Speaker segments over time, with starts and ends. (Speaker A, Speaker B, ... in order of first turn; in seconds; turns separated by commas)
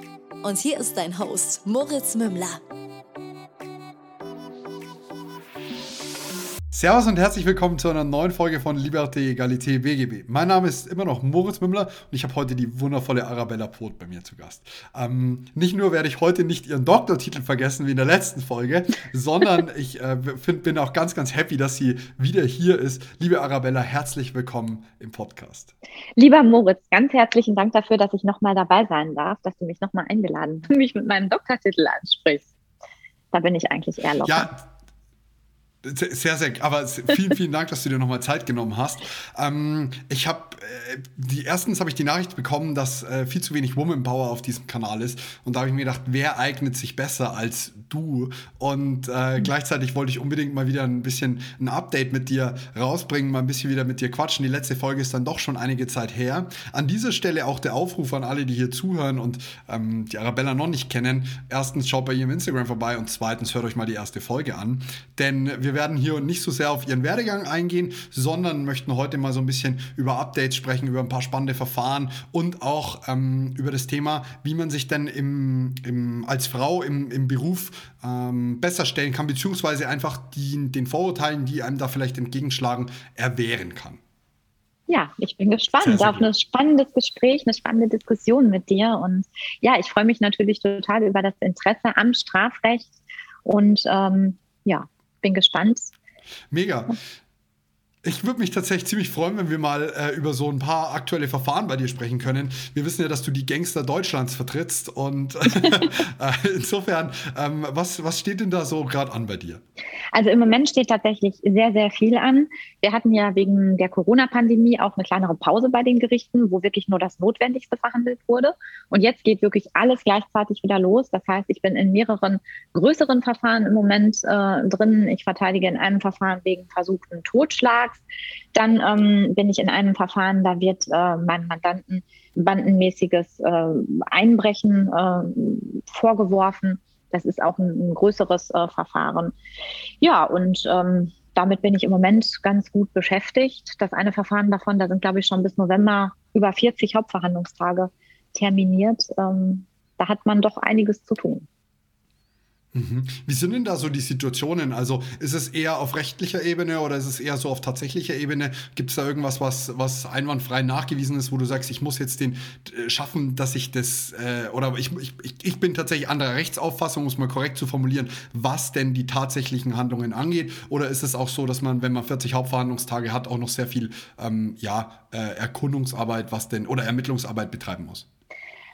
Speaker A: 0.4-2.6, Speaker B: 6.7-25.7, Speaker C: 26.2-32.5, Speaker C: 33.3-34.5, Speaker B: 34.2-34.7, Speaker B: 35.8-84.0, Speaker C: 84.9-92.9, Speaker B: 85.8-86.2, Speaker C: 93.5-95.9, Speaker B: 96.5-97.0, Speaker B: 98.0-109.6, Speaker C: 110.1-128.0, Speaker C: 128.5-139.3, Speaker C: 140.0-151.5, Speaker B: 152.7-178.1